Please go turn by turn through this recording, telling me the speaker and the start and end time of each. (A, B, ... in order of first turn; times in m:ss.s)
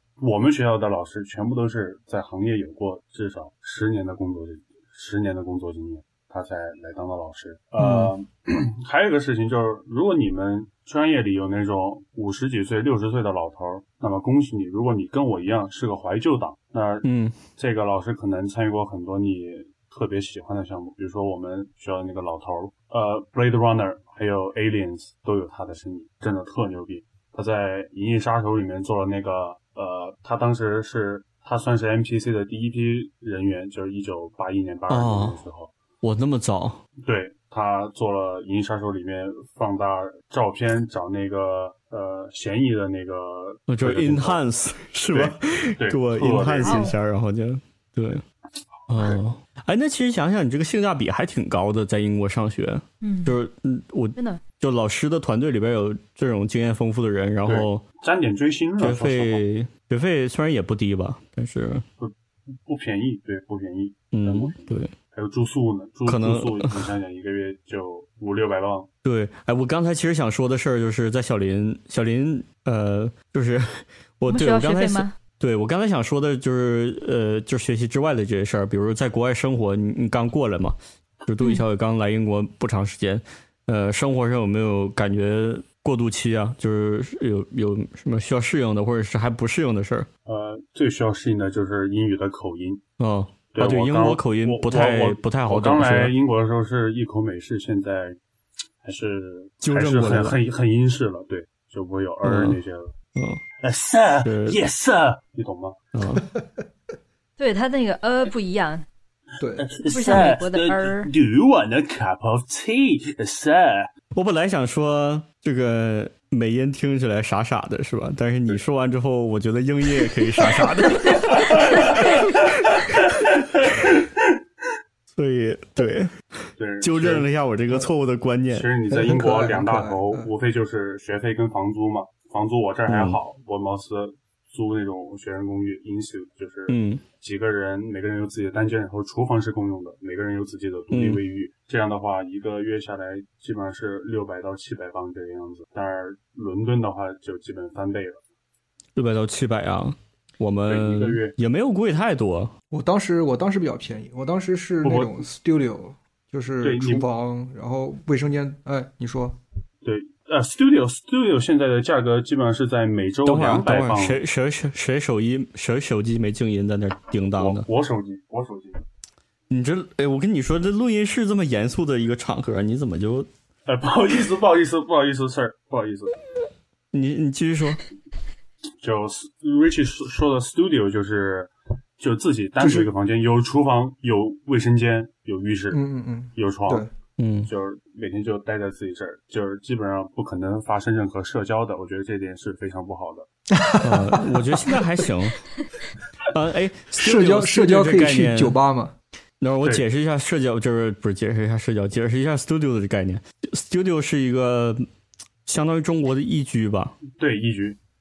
0:00.2-0:35.7 A
0:07.8-0:08.1 B
0:17.0-0:17.4 B
0:34.9-0:35.4 B
0:36.0-0:36.8 B
0:37.0-0:44.4 A
0:43.7-0:48.2 B
0:45.1-0:46.9 A
0:46.6-0:46.9 C
0:48.9-0:57.8 B
0:48.9-0:49.2 A
0:53.0-0:53.4 C
0:54.2-0:54.4 C
0:57.4-0:59.4 A
0:58.8-1:01.8 B
1:02.6-1:08.9 A
1:04.1-1:04.9 B
1:06.0-1:06.9 B
1:09.0-1:30.1 B
1:14.3-1:15.1 C
1:30.2-1:32.8 A
1:33.0-1:36.1 B
1:33.5-1:38.2 A
1:38.8-1:42.9 A
1:39.6-1:40.4 B
1:42.2-1:42.6 B
1:43.2-1:43.4 B
1:43.6-1:45.8 A
1:44.2-1:44.6 B
1:45.9-1:46.3 B
1:47.4-1:48.8 C
1:49.4-1:49.7 D
1:49.6-1:53.9 A
1:49.8-1:51.1 C
1:54.1-2:03.0 B
2:01.7-2:02.0 A
2:05.1-2:06.1 B
2:06.6-2:07.8 A
2:06.8-2:08.7 B
2:08.5-2:28.2 A
2:08.9-2:10.3 D
2:12.9-2:13.2 B
2:16.7-2:17.0 B
2:20.9-2:21.2 B
2:29.0-2:32.5 B
2:30.6-2:31.3 A
2:32.7-2:39.4 D
2:34.8-2:35.2 A
2:36.6-2:37.0 A
2:39.8-2:44.2 A
2:43.2-2:47.6 B
2:47.4-2:48.8 A
2:49.5-2:53.3 B
2:53.6-2:56.2 A
2:56.9-2:57.8 B
2:58.8-3:05.8 A
3:02.6-3:02.9 D
3:05.7-3:06.9 D
3:06.3-3:06.8 A
3:07.2-3:07.5 B
3:07.5-3:13.3 A
3:13.5-3:15.0 D
3:13.8-3:15.4 B
3:16.2-3:18.6 B
3:17.0-3:18.9 D
3:19.4-3:24.8 B
3:25.4-3:27.0 B
3:27.1-3:27.8 A